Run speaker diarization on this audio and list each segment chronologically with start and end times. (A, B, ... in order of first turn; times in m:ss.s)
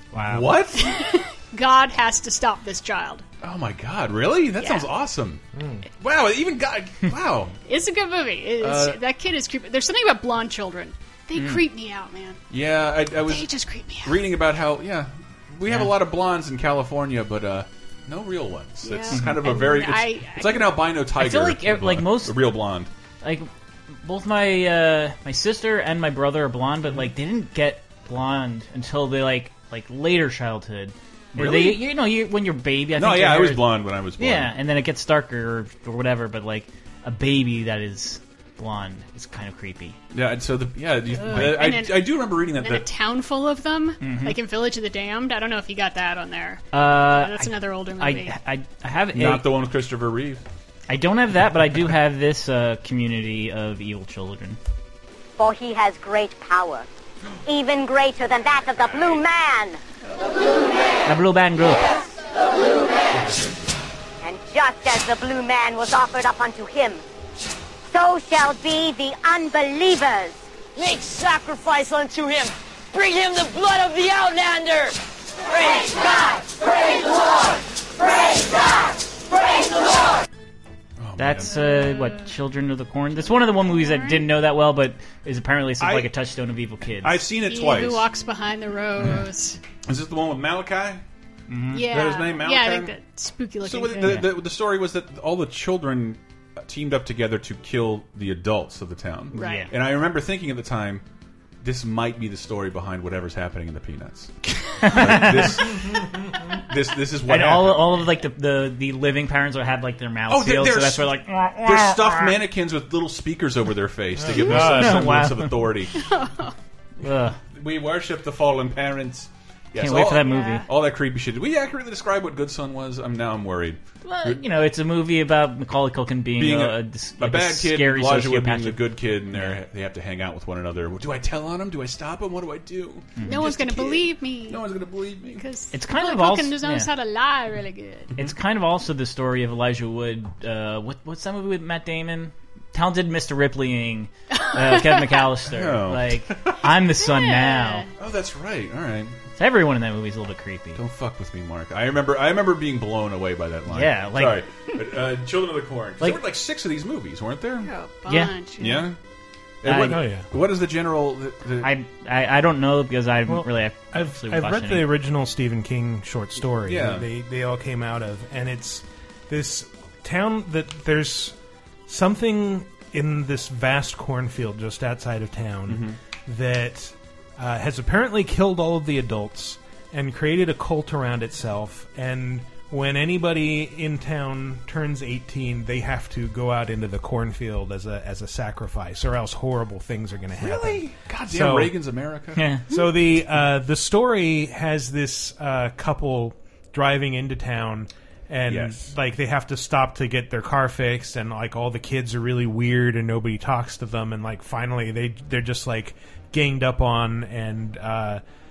0:00.1-0:00.6 A
0:00.3-0:00.9 B
0:00.8-0:03.2 C
0:03.4-0:05.4 B
0:04.6-0:04.9 C
0:05.6-0:05.8 D
0:06.0-0:07.5 B
0:07.7-0:12.4 C
0:08.6-0:09.0 B
0:11.4-0:11.6 A
0:12.5-0:13.5 B
0:13.2-0:14.2 C
0:14.0-0:22.9 B
0:15.6-0:15.9 A
0:18.8-0:20.8 C
0:19.1-0:19.4 A
0:21.2-0:22.4 A
0:23.2-0:23.5 A
0:24.0-0:40.0 A
0:31.4-0:31.8 B
0:32.9-0:34.5 B
0:40.1-0:42.9 B
0:41.2-0:48.4 C
0:41.2-0:41.6 A
0:44.0-0:44.4 A
0:46.7-0:49.4 A
0:49.1-0:50.4 B
0:50.9-0:54.6 A
0:55.4-0:56.9 E
0:57.4-0:59.8 E
0:58.8-0:59.2 B
1:01.1-1:01.9 A
1:03.2-1:03.4 B
1:04.2-1:07.0 E
1:07.9-1:10.4 E
1:10.7-1:14.9 F
1:15.5-1:16.4 F
1:21.0-1:21.5 B
1:21.2-1:27.2 A
1:21.5-1:22.2 C
1:23.6-1:24.2 C
1:25.8-1:26.1 B
1:27.0-1:28.0 B
1:27.4-1:29.6 C
1:29.9-1:31.0 B
1:31.5-1:31.9 A
1:31.7-1:34.2 C
1:31.8-1:32.9 B
1:33.6-1:41.0 B
1:34.0-1:34.3 A
1:39.3-1:39.7 A
1:39.3-1:39.7 C
1:41.6-1:47.9 B
1:44.8-1:45.6 A
1:47.3-1:52.4 A
1:50.3-1:56.0 B
1:54.3-1:55.7 A
1:56.0-1:56.5 C
1:57.0-1:57.4 A
1:57.5-2:04.4 B
1:59.8-2:00.6 A
2:00.2-2:00.6 C
2:04.0-2:09.6 A
2:06.4-2:15.4 B
2:13.2-2:13.4 A
2:13.2-2:14.7 C
2:15.3-2:18.1 C
2:15.7-2:16.9 A
2:18.2-2:27.9 A
2:24.4-2:25.2 C
2:25.5-2:26.6 B
2:27.0-2:27.9 C
2:28.0-2:29.2 B
2:29.4-2:30.8 A
2:30.7-2:37.7 B
2:33.7-2:34.4 A
2:37.6-2:38.9 C
2:38.1-2:38.3 A
2:38.6-2:39.0 B
2:39.6-2:41.7 B
2:39.6-2:40.0 A
2:39.9-2:40.3 D
2:41.6-2:44.9 A
2:43.3-2:51.4 D
2:46.6-2:47.1 B
2:51.9-3:11.7 D
2:55.7-2:56.0 B
3:10.4-3:12.6 B
3:12.4-3:12.6 A
3:12.7-3:28.2 D
3:18.5-3:18.8 B